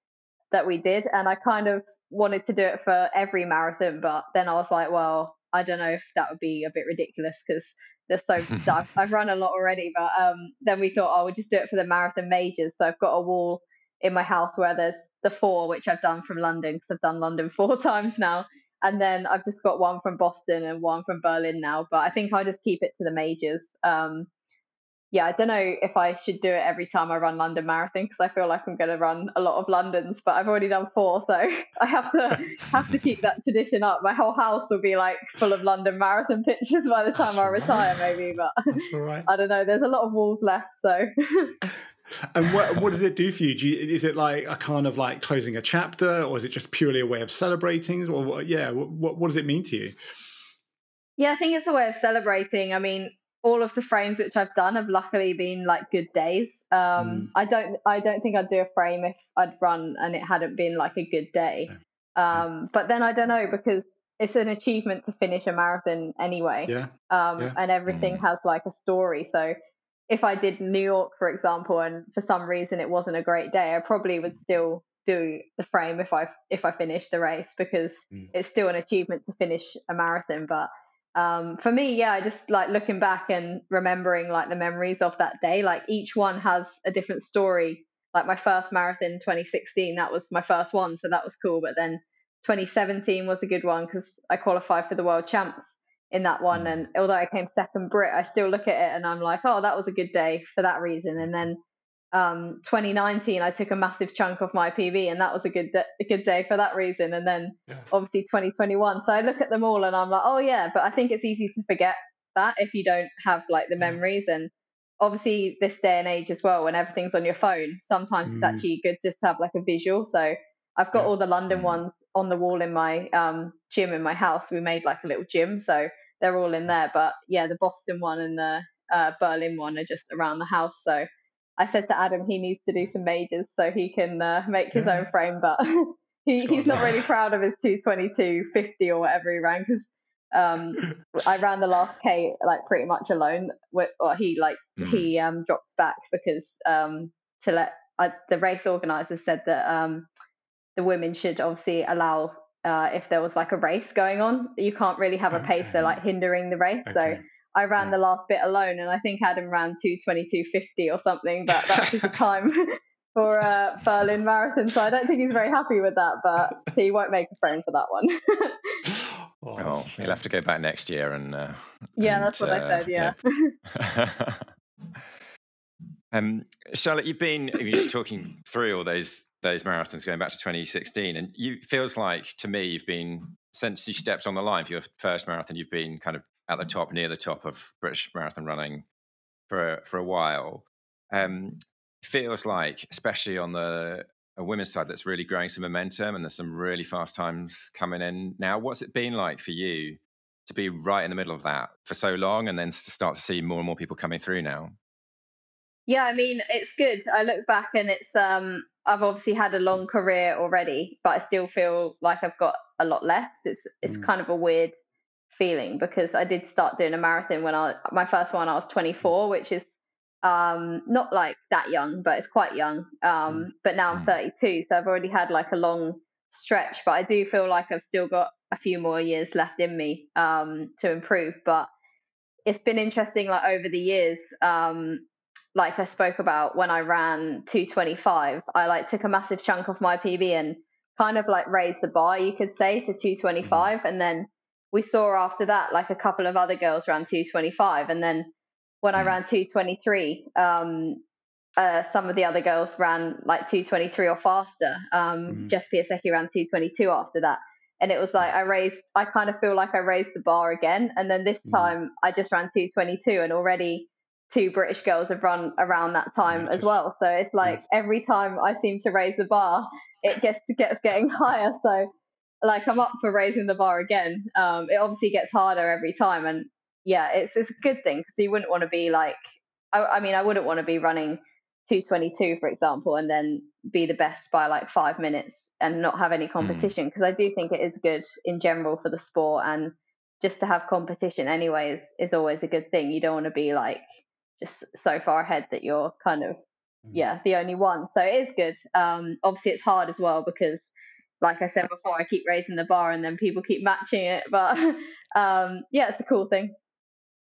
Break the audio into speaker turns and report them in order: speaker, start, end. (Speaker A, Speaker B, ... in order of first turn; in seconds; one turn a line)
Speaker A: 0.5-24.3
Speaker A: 25.1-41.5
Speaker B: 37.2-37.9
Speaker B: 38.7-39.3
Speaker B: 42.3-50.0
Speaker A: 51.2-69.5
Speaker B: 57.0-57.3
Speaker B: 66.7-67.6
Speaker C: 67.9-68.2
Speaker A: 70.1-101.6
Speaker A: 102.1-131.1
Speaker B: 118.2-118.6
Speaker A: 131.6-150.1
Speaker B: 134.7-135.0
Speaker B: 136.4-137.0
Speaker C: 144.8-145.1
Speaker A: 150.8-168.8
Speaker B: 155.4-156.0
Speaker B: 156.9-157.2
Speaker B: 168.9-170.2
Speaker C: 169.6-174.5
Speaker A: 172.0-173.5
Speaker C: 176.1-188.8
Speaker C: 189.5-204.8
Speaker A: 205.9-214.7
Speaker A: 215.3-231.7
Speaker A: 232.5-248.3
Speaker B: 243.4-243.7
Speaker A: 248.8-251.0
Speaker A: 251.6-271.9
Speaker B: 261.5-261.8
Speaker B: 266.3-266.7
Speaker A: 272.4-279.2
Speaker A: 279.7-293.8
Speaker C: 286.4-286.7
Speaker A: 294.4-296.4
Speaker A: 296.9-300.7
Speaker A: 301.2-306.5